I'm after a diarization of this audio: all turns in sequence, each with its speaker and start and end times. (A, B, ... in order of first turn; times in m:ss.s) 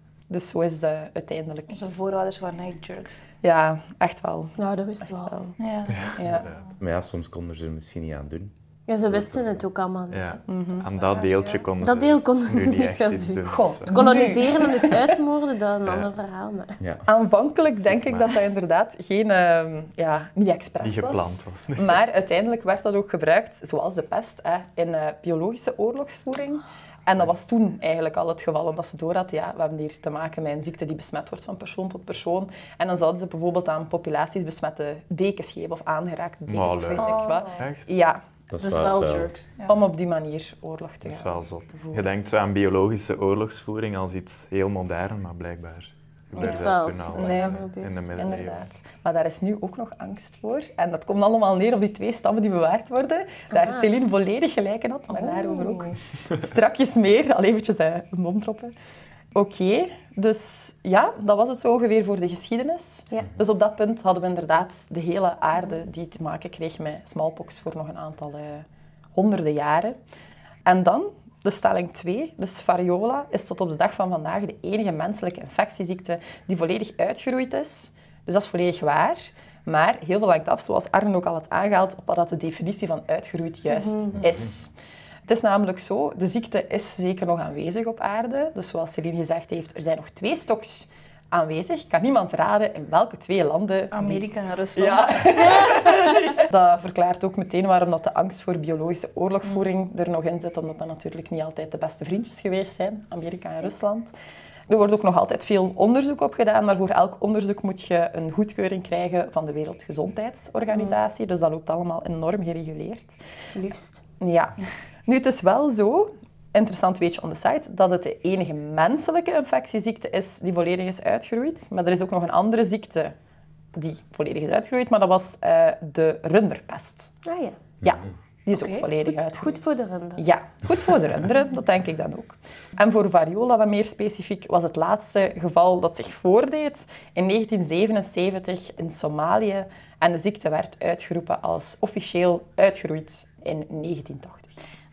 0:00.3-0:01.8 A
0:01.7-0:03.2 B
0:03.4-0:05.5 A
0:04.6-0:05.6 C
0:05.6-0:06.4 B
0:05.9-0:06.7 D
0:06.2-0:06.5 A
0:06.8-0:08.5 E
0:08.9-0:10.3 C
0:10.1-0:14.2 D
0:10.5-0:10.9 A
0:10.9-0:11.6 B
0:11.8-0:16.8 C
0:13.5-0:15.2 A
0:16.8-0:17.1 E
0:17.1-0:38.2 A
0:17.9-0:18.4 D
0:20.8-0:22.0 D
0:36.5-0:37.9 D
0:37.0-0:37.5 B
0:38.5-0:39.3 E
0:38.6-0:39.9 B
0:39.7-0:42.1 A
0:41.0-0:48.7 D
0:46.4-0:58.7 A
0:46.4-0:47.9 C
0:53.5-0:53.9 C
0:55.2-0:55.9 B
0:59.3-1:10.0 A
1:10.6-1:24.7 A
1:23.7-1:24.2 C
1:25.3-1:34.2 A
1:33.9-1:36.4 B
1:34.8-1:44.1 A
1:44.7-1:53.2 A
1:50.7-1:51.0 C
1:53.5-1:54.0 C
1:54.2-2:03.2 A
2:03.8-2:07.2 A
2:07.2-2:07.6 C
2:07.8-2:08.1 E
2:07.8-2:09.6 A
2:08.5-2:08.9 B
2:09.1-2:10.3 C
2:10.2-2:24.6 A